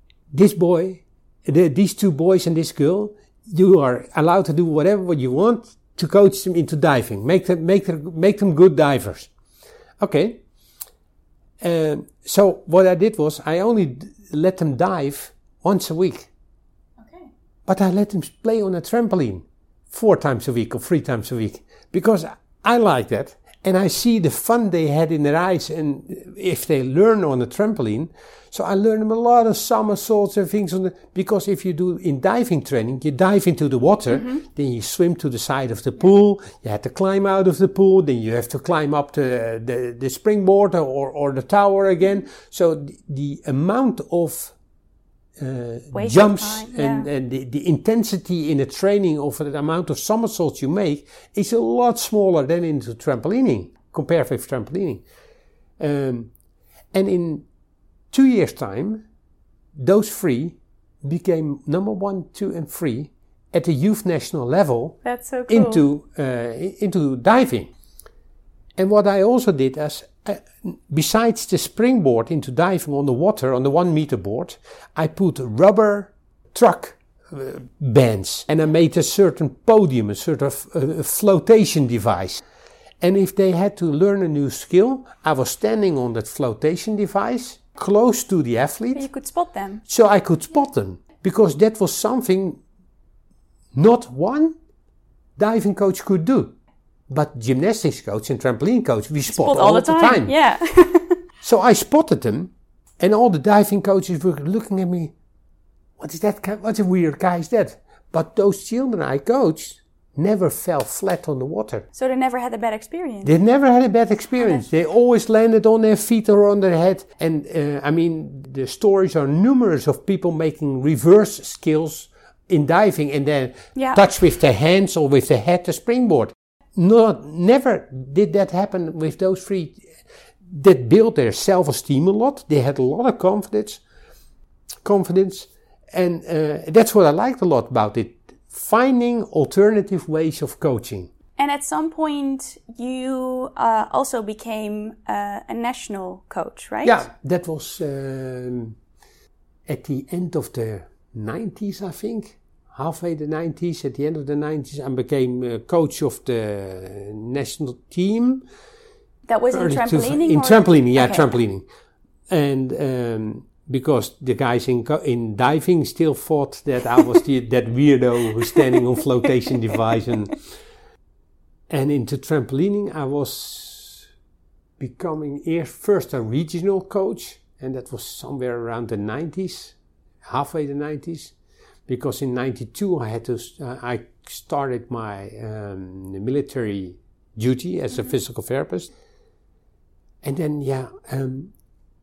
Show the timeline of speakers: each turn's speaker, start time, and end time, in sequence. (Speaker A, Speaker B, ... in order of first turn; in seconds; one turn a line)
Speaker A: 0.3-9.3
Speaker A: 10.0-10.4
Speaker A: 11.6-16.3
Speaker A: 17.6-44.5
Speaker A: 45.4-55.0
Speaker B: 45.9-47.1
Speaker A: 55.8-56.3
Speaker A: 56.9-57.5
Speaker A: 58.1-59.0
Speaker A: 59.7-67.7
Speaker B: 65.0-65.8
Speaker A: 68.8-82.4
Speaker A: 83.0-89.1
Speaker B: 88.9-89.8
Speaker A: 89.9-92.6
Speaker A: 93.7-94.5
Speaker A: 95.4-96.5
Speaker A: 97.1-100.3
Speaker B: 99.3-101.2
Speaker A: 101.4-105.1
Speaker A: 106.0-111.8
Speaker B: 111.9-113.3
Speaker A: 113.2-129.8
Speaker B: 114.4-114.6
Speaker B: 123.7-124.0
Speaker A: 130.4-133.8
Speaker A: 134.8-141.1
Speaker B: 141.4-147.1
Speaker A: 146.8-148.8
Speaker A: 149.7-158.4
Speaker B: 159.3-161.3
Speaker A: 159.5-161.7
Speaker A: 162.3-170.4
Speaker A: 171.7-174.1
Speaker A: 174.8-181.3
Speaker A: 181.9-188.9
Speaker A: 190.2-191.5